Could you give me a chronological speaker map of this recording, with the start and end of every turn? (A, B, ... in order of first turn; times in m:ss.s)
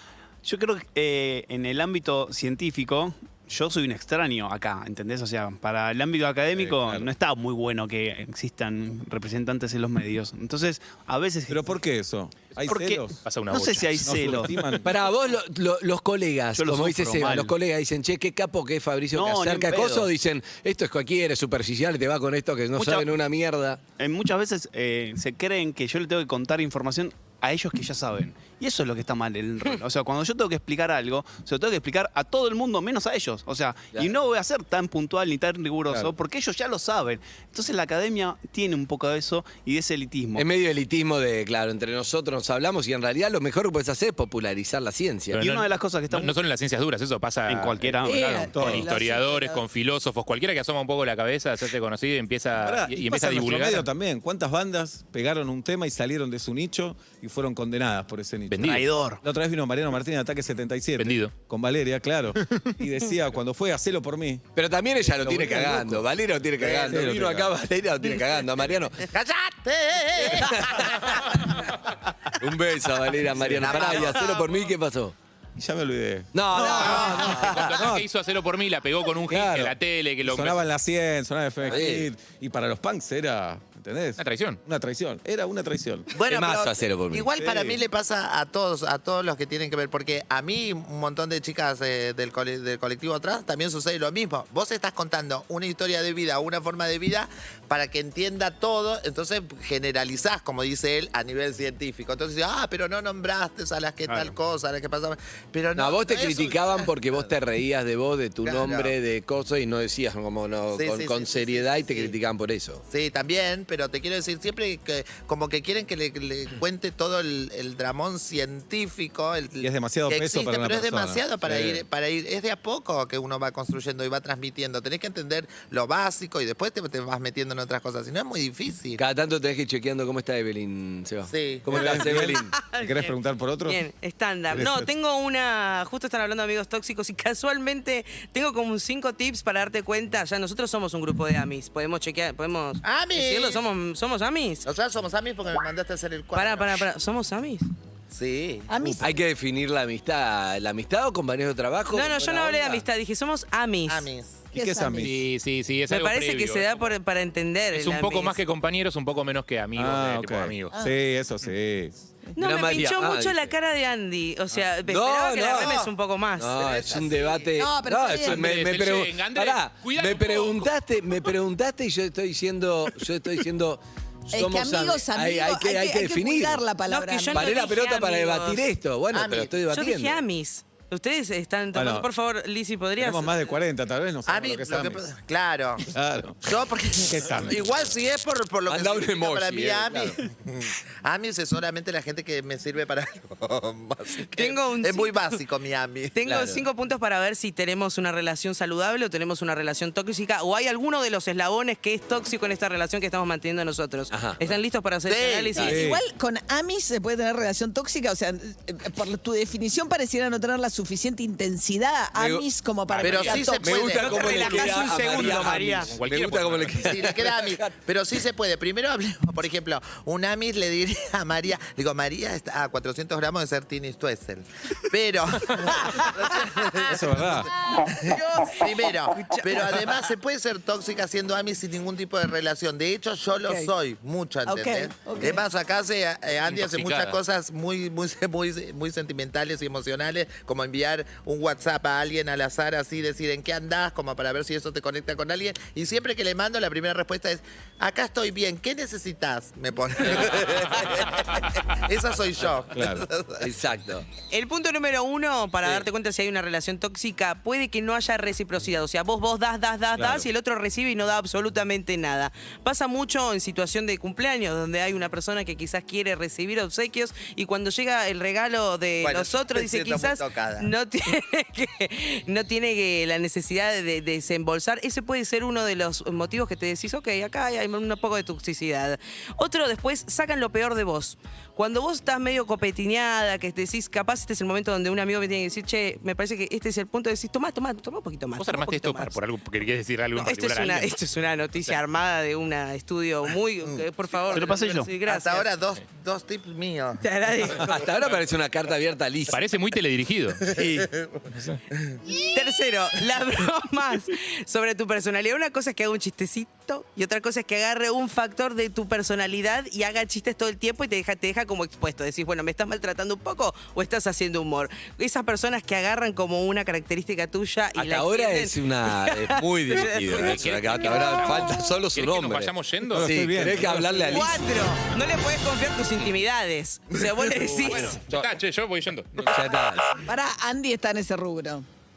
0:00.4-0:11.7 A
0:06.5-0:07.1 B
0:11.5-0:13.1 B
0:12.7-0:14.5 A
0:13.2-0:14.4 C
0:14.0-0:14.9 B
0:14.8-0:23.8 D
0:16.6-0:17.6 A
0:19.1-0:20.1 A
0:24.0-0:40.4 A
0:40.4-0:45.4 D
0:45.3-0:53.9 C
0:45.4-0:46.4 A
0:47.5-0:48.5 A
0:48.0-0:49.6 E
0:48.5-0:48.9 B
0:52.6-1:06.1 B
0:58.5-0:58.8 C
0:58.6-0:59.2 A
1:01.0-1:01.3 C
1:04.5-1:09.0 D
1:06.6-1:07.0 F
1:06.8-1:07.5 B
1:09.1-1:11.6 F
1:10.2-1:11.2 D
1:12.4-1:15.1 D
1:13.3-1:14.0 B
1:13.6-1:14.4 F
1:13.8-1:14.1 C
1:15.6-1:18.0 B
1:16.3-1:17.6 D
1:16.8-1:17.6 F
1:16.8-1:20.6 C
1:19.3-1:26.1 B
1:21.6-1:22.1 D
1:24.2-1:24.6 C
1:26.1-1:47.2 F
1:26.3-1:27.2 D
1:27.4-1:27.8 B
1:44.1-1:44.3 A
1:45.8-1:52.8 D
1:48.4-1:48.9 F
1:50.7-1:52.1 F
1:52.9-2:09.0 F
1:59.6-2:01.8 B
2:09.0-2:12.5 D
2:11.3-2:11.6 F
2:11.7-2:13.8 B
2:12.5-2:24.6 G
2:14.5-2:14.9 B
2:22.8-2:23.6 F
2:24.6-2:26.9 F
2:26.3-2:27.7 G
2:28.1-2:28.7 F
2:28.7-2:29.1 E
2:29.0-2:32.8 D
2:31.9-2:34.1 G
2:33.9-2:34.4 F
2:34.5-2:35.1 E
2:34.5-2:35.1 B
2:34.9-2:36.8 C
2:35.9-2:38.4 G
2:37.7-2:40.7 C
2:39.7-2:42.0 B
2:42.4-2:46.6 G
2:42.4-2:43.5 D
2:44.9-2:45.8 D
2:45.5-2:45.9 F
2:46.4-2:56.6 D
2:46.5-2:47.5 F
2:47.6-2:48.4 E
2:48.2-2:50.7 C
2:54.3-2:57.6 E
2:56.9-2:58.7 G
2:57.3-3:00.2 D
2:59.1-2:59.6 F
2:59.7-3:03.5 G
3:01.7-3:02.1 B
3:03.0-3:05.0 B
3:04.3-3:05.8 F
3:05.9-3:06.4 B
3:06.4-3:16.2 F
3:07.0-3:07.7 B
3:08.7-3:10.2 D
3:14.3-3:15.4 G
3:16.1-3:25.8 G
3:16.2-3:16.6 D
3:24.1-3:24.5 D
3:25.0-3:25.6 F
3:25.6-3:33.8 E
3:25.6-3:26.0 B
3:32.2-3:37.7 D
3:33.0-3:34.1 F
3:33.1-3:37.1 C
3:33.8-3:35.9 G
3:36.8-4:13.4 F
3:45.8-3:46.1 E
3:46.9-3:47.5 B
3:47.8-3:49.8 E
3:53.4-3:53.7 E
3:54.4-3:55.4 E
3:56.5-3:57.2 C
4:12.7-4:13.1 B
4:13.4-4:14.0 D
4:14.3-4:49.2 G
4:20.0-4:20.3 B
4:29.0-4:30.7 F
4:48.4-4:50.9 C
4:50.2-4:55.5 G
4:53.6-4:54.4 F
4:54.3-4:54.9 A
4:55.0-4:57.0 F
4:57.0-4:57.7 G
4:57.6-4:59.4 D
4:59.3-5:00.5 C
5:00.5-5:00.8 A
5:00.5-5:01.2 F
5:01.3-5:01.6 C
5:02.3-5:21.5 G
5:17.8-5:24.5 D
5:20.1-5:23.1 C
5:22.9-5:24.1 B
5:24.0-5:28.0 G
5:27.6-5:29.6 C
5:29.2-5:30.0 D
5:30.1-5:31.6 E